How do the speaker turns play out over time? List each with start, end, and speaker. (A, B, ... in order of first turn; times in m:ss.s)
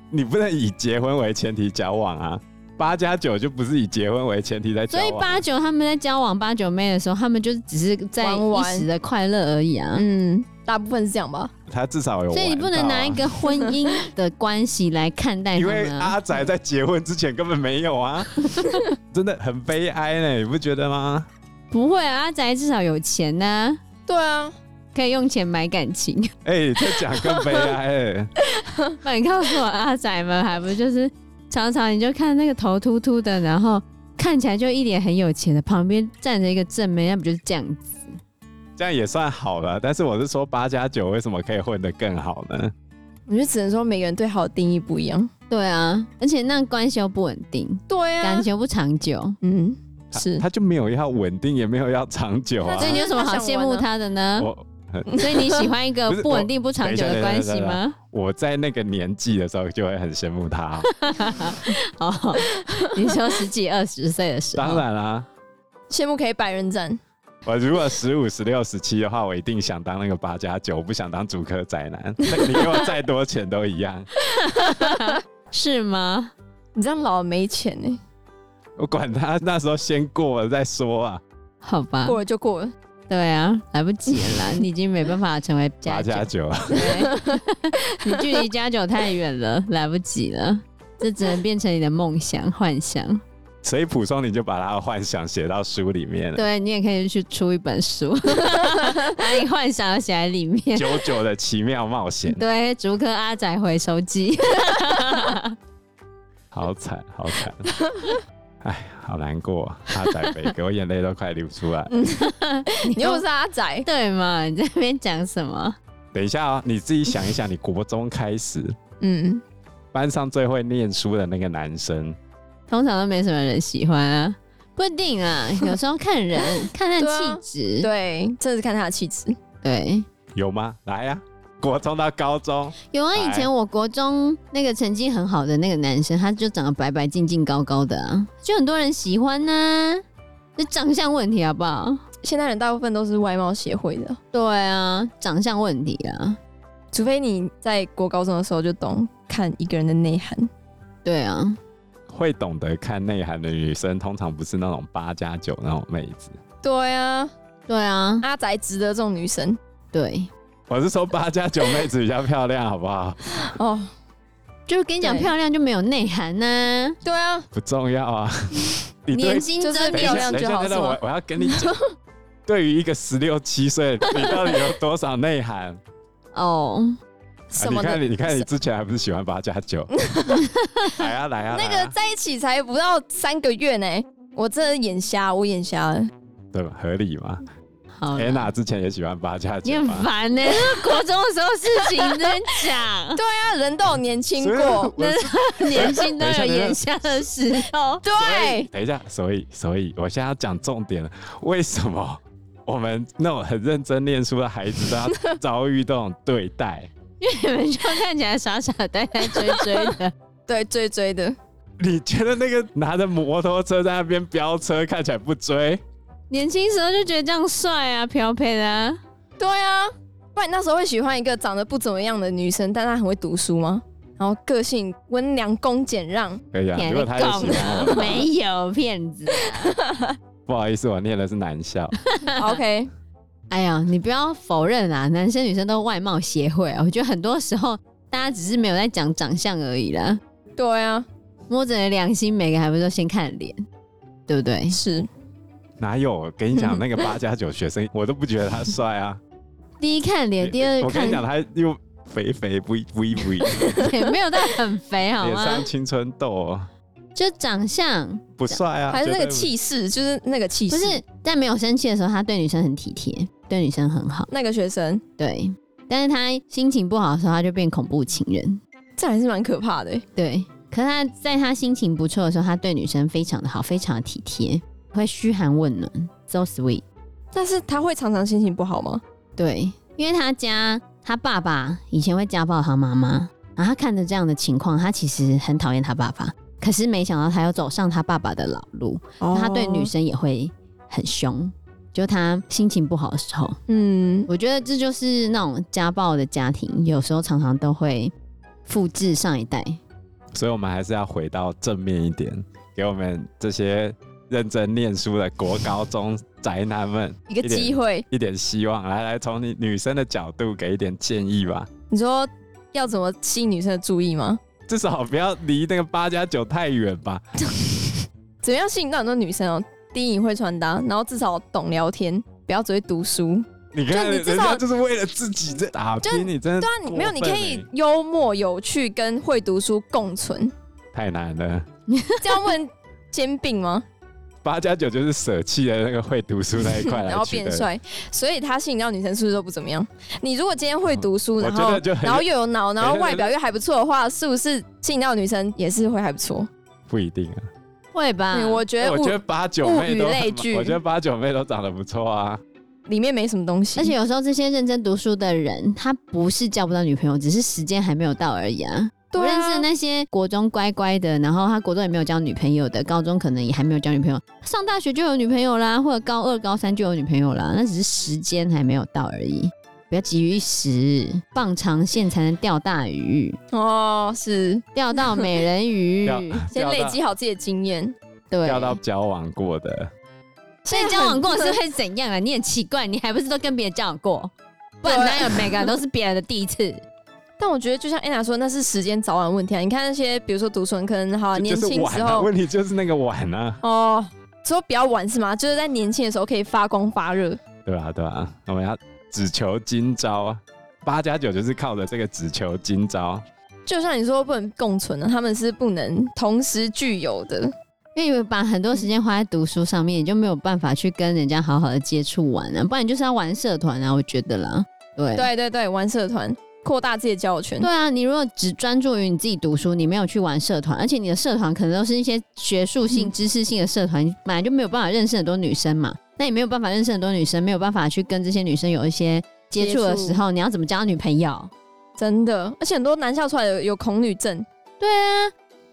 0:00.1-0:05.4 A
0:04.9-0:10.0 B
0:08.2-0:08.9 C
0:09.9-0:11.5 C
0:11.7-0:13.3 A
0:12.3-0:16.2 B
0:15.5-0:18.4 A
0:19.1-0:21.3 A
0:21.7-0:23.8 B
0:24.1-0:24.5 C
0:24.9-0:26.3 B
0:26.4-0:28.3 A
0:29.0-0:38.2 B
0:38.8-0:42.7 A
0:43.3-0:45.3 C
0:45.5-0:49.4 B
0:47.9-0:48.5 C
0:49.4-0:50.4 C
0:50.1-0:53.0 A
0:52.6-0:53.9 C
0:52.8-0:54.5 B
0:54.4-0:55.4 A
0:55.1-0:55.6 C
0:55.2-0:57.9 B
0:56.1-1:00.9 A
1:00.8-1:04.8 B
1:04.5-1:05.3 A
1:05.9-1:07.0 C
1:07.4-1:14.1 A
1:14.4-1:16.3 B
1:14.6-1:15.0 C
1:16.8-1:18.0 C
1:18.8-1:21.2 A
1:21.6-1:22.2 B
1:22.0-1:22.7 C
1:23.1-1:33.2 B
1:25.8-1:27.0 A
1:26.7-1:27.4 C
1:28.0-1:28.4 C
1:33.6-1:36.4 A
1:36.4-1:41.0 B
1:40.8-1:42.4 A
1:42.3-1:45.5 B
1:46.5-1:47.6 A
1:48.6-1:52.0 A
1:51.9-1:53.8 C
1:52.2-1:53.2 B
1:53.8-1:55.8 B
1:56.1-1:58.8 A
1:59.0-1:59.4 C
1:59.9-2:02.2 A
2:02.7-2:07.9 B
2:06.6-2:09.4 C
2:09.6-2:10.0 B
2:10.3-2:13.5 A
2:12.9-2:20.0 B
2:20.6-2:22.0 B
2:22.2-2:24.2 C
2:24.3-2:26.4 B
2:26.9-2:30.5 C
2:31.0-2:31.6 B
2:32.1-2:36.4 A
2:36.6-2:37.3 C
2:37.7-2:38.3 B
2:38.2-2:39.6 C
2:39.9-2:40.3 B
2:40.7-2:43.2 A
2:43.4-2:43.9 C
2:44.7-2:47.0 B
2:45.0-2:45.3 C
2:47.0-2:47.5 C
2:47.5-2:51.7 A
2:49.1-2:50.3 B
2:49.6-2:51.8 C
2:52.5-2:55.8 A
2:54.1-2:54.6 C
2:56.3-2:57.0 B
2:57.5-2:58.5 C
2:57.6-2:59.9 A
2:59.9-3:00.5 C
3:00.4-3:00.9 B
3:00.9-3:01.9 A
3:01.5-3:06.1 C
3:06.5-3:07.5 A
3:07.9-3:08.5 B
3:08.1-3:10.1 A
3:09.6-3:13.2 B
3:10.4-3:11.0 C
3:11.8-3:12.3 C
3:13.1-3:14.9 C
3:14.4-3:16.9 A
3:15.0-3:18.0 B
3:18.0-3:18.7 C
3:18.2-3:26.9 A
3:27.2-3:30.1 B
3:29.3-3:29.9 C
3:30.5-3:31.4 C
3:31.8-3:35.8 A
3:36.3-3:39.0 B
3:39.4-3:46.4 C
3:46.5-3:48.2 A
3:46.8-3:49.8 B
3:47.2-3:48.2 C
3:49.6-3:50.1 C
3:50.5-3:52.0 A
3:52.3-3:52.9 C
3:53.5-4:00.2 B
4:00.6-4:01.1 C
4:01.5-4:03.6 B
4:04.3-4:04.8 B
4:04.7-4:05.1 C
4:05.8-4:09.2 A
4:06.5-4:06.8 C
4:09.8-4:11.2 B
4:10.4-4:13.9 A
4:13.6-4:13.9 C
4:13.8-4:15.6 B
4:15.2-4:16.7 A
4:17.1-4:18.6 B
4:18.4-4:19.5 A
4:18.9-4:21.0 C
4:20.7-4:24.3 B
4:24.3-4:25.0 C
4:25.2-4:28.6 B
4:29.0-4:30.0 C
4:30.2-4:36.8 B
4:37.3-4:39.0 C
4:39.4-4:53.6 B
4:49.2-4:49.9 C
4:53.7-4:54.3 C
4:54.3-4:58.1 B
4:58.6-4:59.8 B
5:00.3-5:11.7 A
5:07.3-5:08.0 C
5:11.9-5:14.4 C
5:14.7-5:17.2 A
5:18.4-5:24.6 C
5:23.7-5:27.6 A
5:26.0-5:30.5 C
5:30.9-5:31.6 A
5:32.2-5:33.8 C
5:34.4-5:37.7 A
5:36.7-5:46.5 C
5:40.9-5:42.3 A
5:42.8-5:43.3 A
5:46.9-5:47.5 A
5:47.9-5:48.6 B
5:48.3-5:50.8 C
5:48.8-5:52.4 A
5:52.9-5:53.9 C
5:53.8-6:13.4 B
5:59.1-5:59.7 C
6:13.5-6:15.2 C
6:14.8-6:16.5 B
6:16.0-6:17.0 A
6:16.5-6:17.9 C
6:18.3-6:18.8 B
6:18.4-6:19.9 A
6:20.6-6:21.6 C
6:20.7-6:26.8 B
6:24.8-6:25.7 C
6:27.4-6:32.3 C
6:31.3-6:33.6 A
6:33.6-6:37.4 C
6:37.6-6:43.2 A
6:43.6-6:47.5 C
6:47.9-6:55.3 B
6:55.1-6:57.7 C
6:57.6-7:11.5 B
7:09.6-7:10.2 C
7:12.0-7:14.5 C
7:14.8-7:15.3 B